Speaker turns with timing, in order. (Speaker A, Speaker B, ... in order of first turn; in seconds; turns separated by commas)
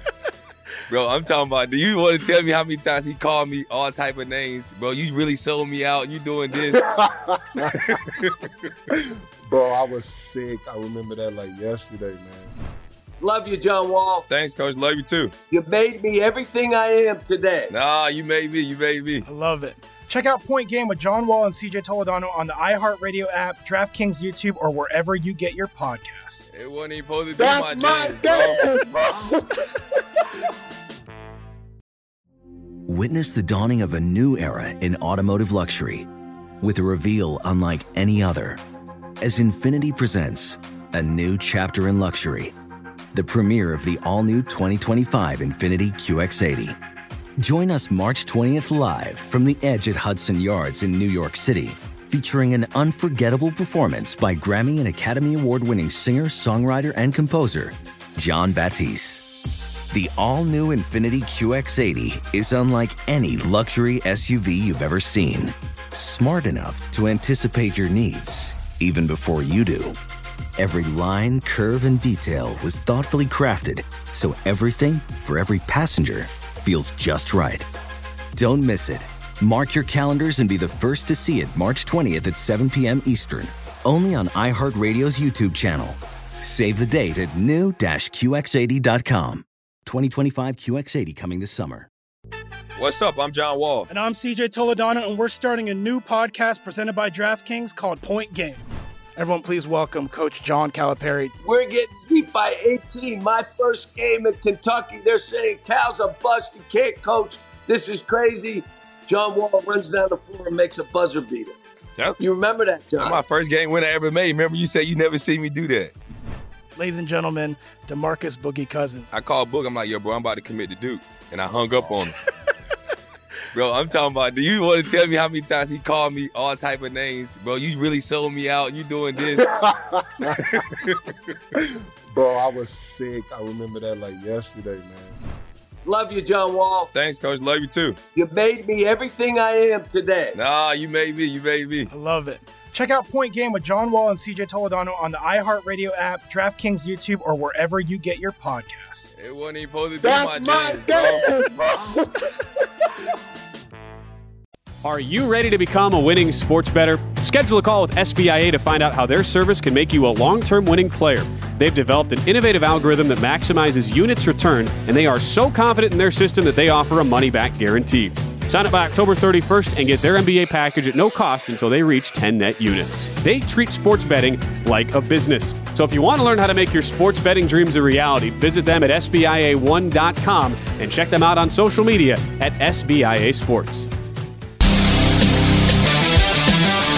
Speaker A: 0.9-6.8, Speaker B: 6.7-7.9, Speaker A: 7.8-8.3, Speaker B: 9.5-12.5, Speaker C: 13.2-14.2, Speaker A: 14.3-15.3, Speaker C: 15.5-17.7, Speaker A: 17.7-19.2, Speaker D: 19.2-26.5, Speaker A: 26.5-28.6, Speaker B: 27.4-29.3, Speaker E: 32.9-36.1, Speaker E: 36.6-38.6, Speaker E: 39.2-42.5, Speaker E: 43.1-46.8, Speaker E: 47.4-59.2, Speaker E: 59.9-70.0, Speaker E: 70.6-77.7, Speaker E: 78.3-91.9, Speaker A: 92.8-93.9, Speaker D: 93.9-98.6, Speaker D: 99.2-101.3, Speaker C: 101.4-111.6, Speaker C: 112.2-113.2, Speaker A: 113.0-115.9, Speaker D: 116.8-119.1, Speaker A: 119.1-122.1, Speaker A: 123.5-129.5, Speaker B: 129.3-130.6, Speaker A: 130.4-130.9, Speaker B: 132.1-135.2, Speaker C: 135.8-136.9, Speaker A: 136.9-138.0, Speaker C: 138.1-140.4, Speaker A: 140.3-141.9, Speaker D: 141.9-149.1, Speaker A: 149.1-151.3, Speaker B: 150.0-151.9, Speaker F: 154.8-183.9